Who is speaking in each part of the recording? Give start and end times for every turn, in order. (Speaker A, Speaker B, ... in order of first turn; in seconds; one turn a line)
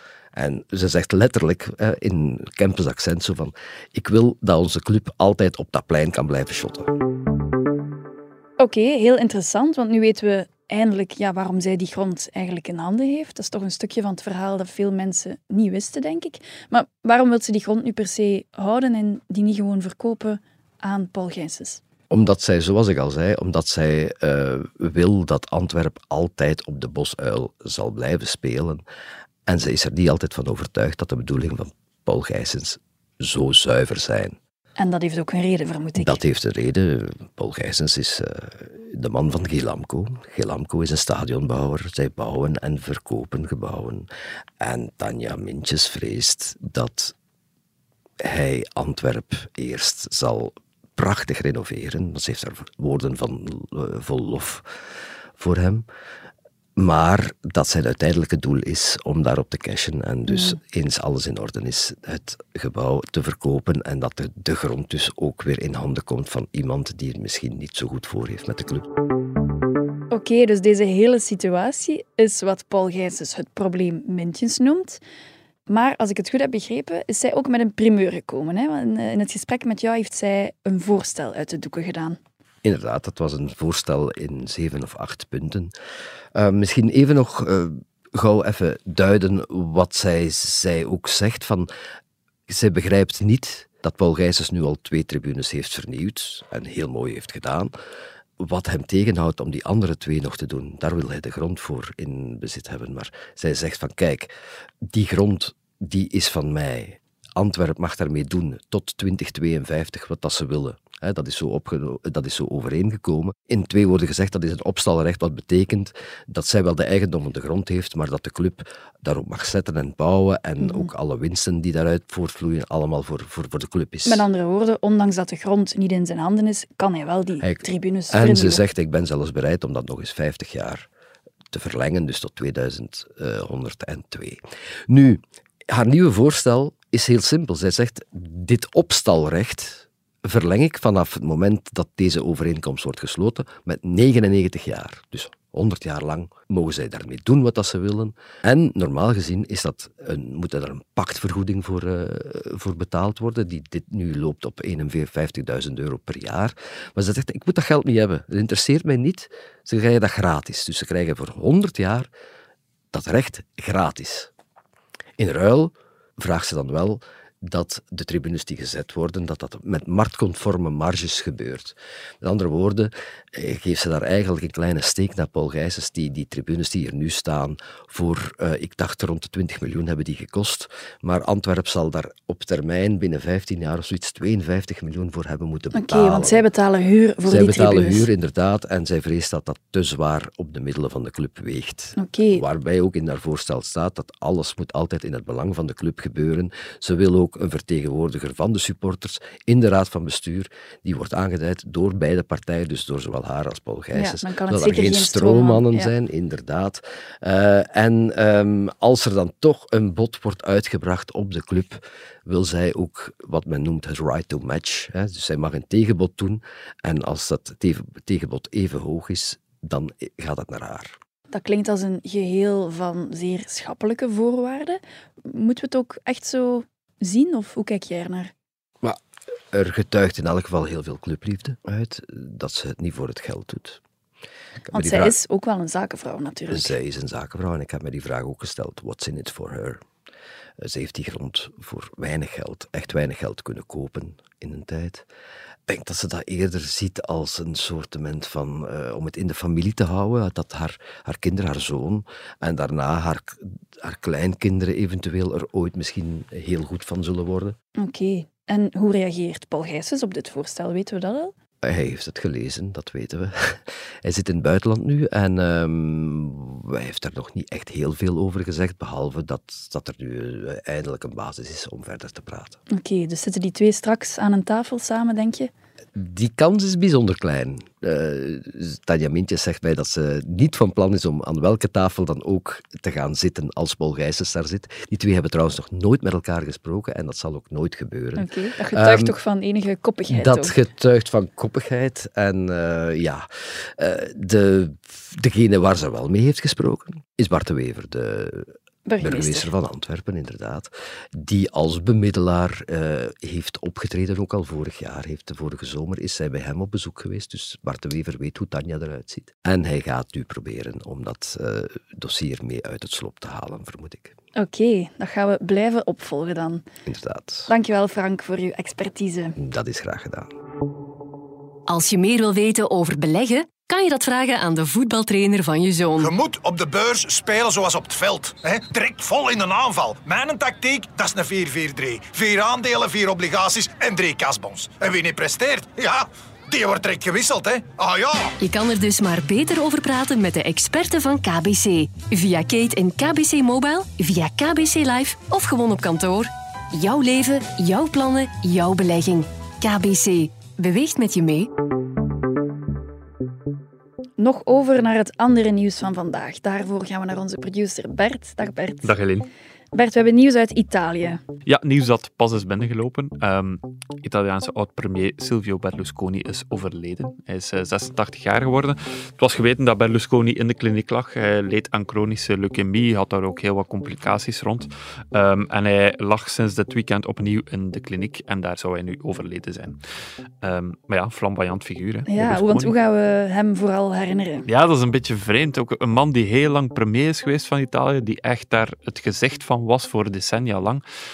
Speaker A: 0.4-6.9
Speaker B: 8.6-21.8
Speaker A: 22.1-28.8
Speaker A: 29.5-34.4
Speaker B: 34.8-36.2
Speaker A: 36.0-44.1
Speaker A: 44.6-47.1
Speaker A: 48.2-54.6
Speaker A: 55.4-55.9
Speaker A: 56.8-68.9
Speaker B: 70.1-75.0
Speaker B: 75.7-82.2
Speaker A: 82.6-85.7
Speaker A: 86.3-91.7
Speaker A: 92.5-97.7
Speaker A: 98.4-104.3
Speaker A: 104.9-124.3
Speaker B: 120.6-120.9
Speaker B: 124.1-128.6
Speaker A: 127.4-130.9
Speaker A: 131.5-162.1
Speaker A: 162.9-164.3
Speaker A: 165.2-186.4
Speaker B: 185.7-188.1
Speaker A: 187.3-221.0
Speaker B: 192.0-192.4
Speaker B: 203.9-205.9
Speaker B: 221.3-228.3
Speaker A: 229.5-233.8
Speaker A: 234.6-235.2
Speaker B: 234.7-236.8
Speaker A: 236.5-239.8
Speaker A: 240.6-245.1
Speaker A: 245.7-257.6
Speaker B: 257.8-261.3
Speaker A: 261.6-272.6
Speaker B: 272.7-275.5
Speaker A: 275.9-289.2
Speaker B: 288.2-290.6
Speaker A: 290.1-298.5
Speaker B: 298.9-299.5
Speaker A: 299.0-314.1
Speaker B: 314.4-316.6
Speaker A: 316.9-317.5
Speaker B: 317.5-319.4
Speaker A: 319.4-320.3
Speaker C: 321.7-326.2
Speaker D: 326.0-338.3
Speaker C: 338.4-351.5
Speaker B: 354.2-358.9
Speaker E: 358.9-359.3
Speaker B: 359.7-361.2
Speaker E: 361.5-379.8
Speaker E: 380.4-382.8
Speaker B: 382.1-384.5
Speaker E: 384.5-390.8